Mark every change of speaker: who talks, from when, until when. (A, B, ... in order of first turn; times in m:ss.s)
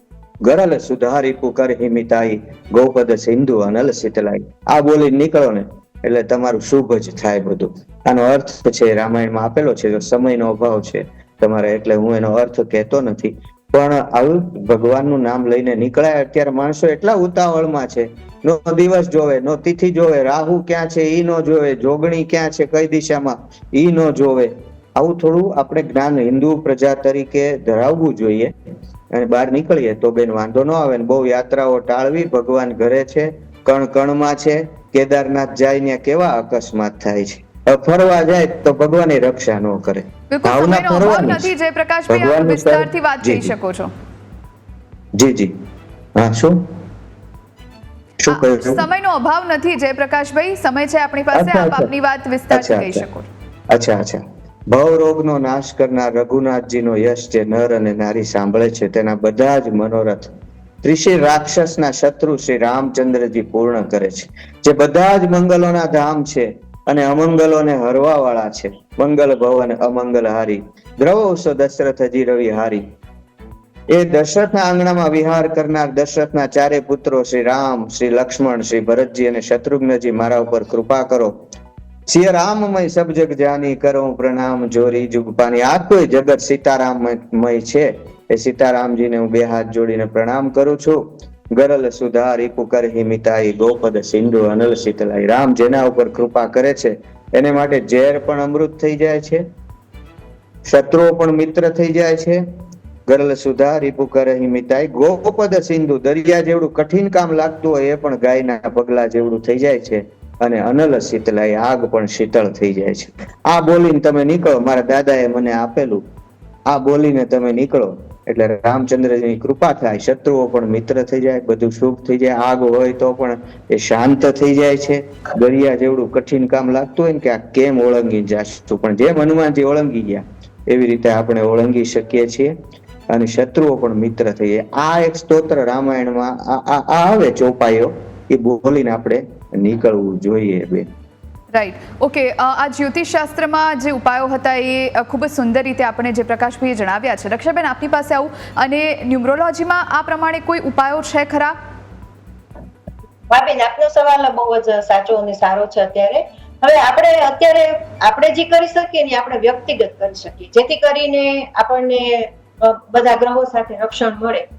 0:00.4-0:28.5 A
0:29.1-0:41.5 A
0:40.3-0:43.9 B
0:42.1-0:43.5 A
0:45.2-0:45.5 A
0:46.2-0:46.6 A
0:48.2-0:48.8 A
0:48.3-0:53.3 B
0:51.3-0:51.9 A
0:52.5-0:53.0 A
0:53.7-1:12.8 A
1:13.9-1:21.4 A
1:22.1-1:39.4 A
1:40.6-1:42.4 A
1:43.1-1:56.0 A
1:56.7-2:12.5 A
2:13.1-2:20.9 A
2:21.5-2:31.5 B
2:33.3-2:44.4 C